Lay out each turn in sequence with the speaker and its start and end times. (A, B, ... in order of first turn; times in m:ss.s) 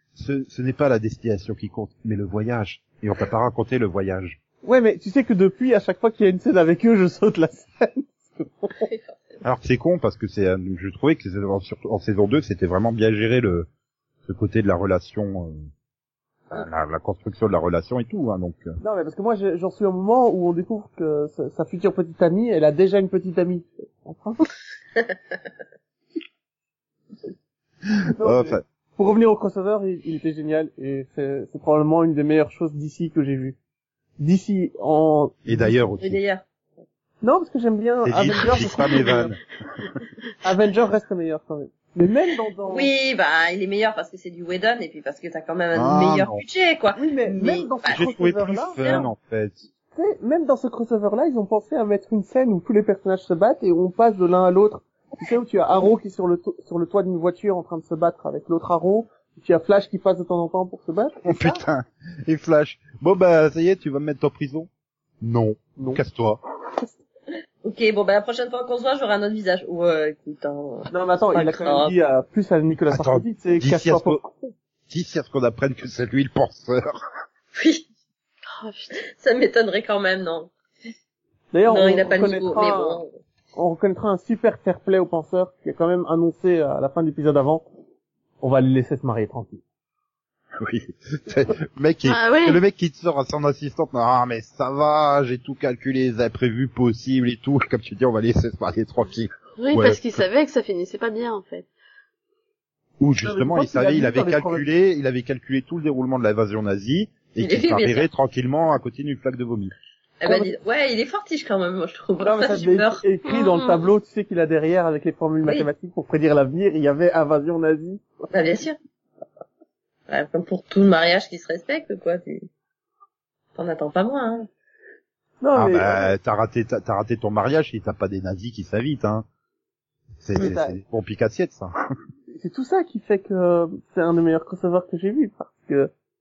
0:00.2-0:04.4 A
0:04.6-0:08.8 B
0:08.9-0:09.2 C
0:09.4-0:13.7 A
0:14.2-0:15.6 A
0:16.5-0:18.8 A
0:18.8-0:24.5 B
0:28.1-0:33.6 B
0:28.2-0:28.6 A
0:34.2-0:35.7 B
0:35.5-0:36.2 A
0:36.0-0:36.4 C
0:37.2-0:39.4 B
0:38.0-0:39.9 A
0:40.4-0:42.9 B
0:42.7-0:48.2 C
0:45.7-0:46.4 A
0:47.0-0:48.8 B
0:47.9-0:49.7 A
0:48.8-0:49.1 C
0:50.0-1:01.6 B
1:01.2-1:04.7 A
1:05.2-1:06.4 A
1:05.8-1:06.0 B
1:07.6-1:12.0 C
1:10.9-1:14.5 B
1:12.9-1:14.2 A
1:14.9-1:17.0 A
1:17.6-1:17.9 C
1:18.5-1:18.9 D
1:19.0-1:20.5 C
1:21.5-1:23.0 B
1:21.7-1:23.1 C
1:23.6-1:27.6 B
1:28.4-1:29.6 B
1:30.6-1:40.2 A
1:32.1-1:32.6 D
1:39.6-1:41.7 D
1:43.0-1:49.7 A
1:43.2-1:44.7 B
1:47.4-1:48.1 C
1:50.2-1:53.0 C
1:50.2-1:50.5 B
1:52.2-1:58.1 B
1:53.3-1:53.8 D
1:55.4-1:55.7 C
1:58.3-1:58.8 C
2:00.1-2:02.5 C
2:03.6-2:04.5 C
2:05.4-2:06.1 B
2:05.6-2:09.2 A
2:10.2-2:11.7 A
2:10.4-2:10.8 B
2:12.3-2:15.9 B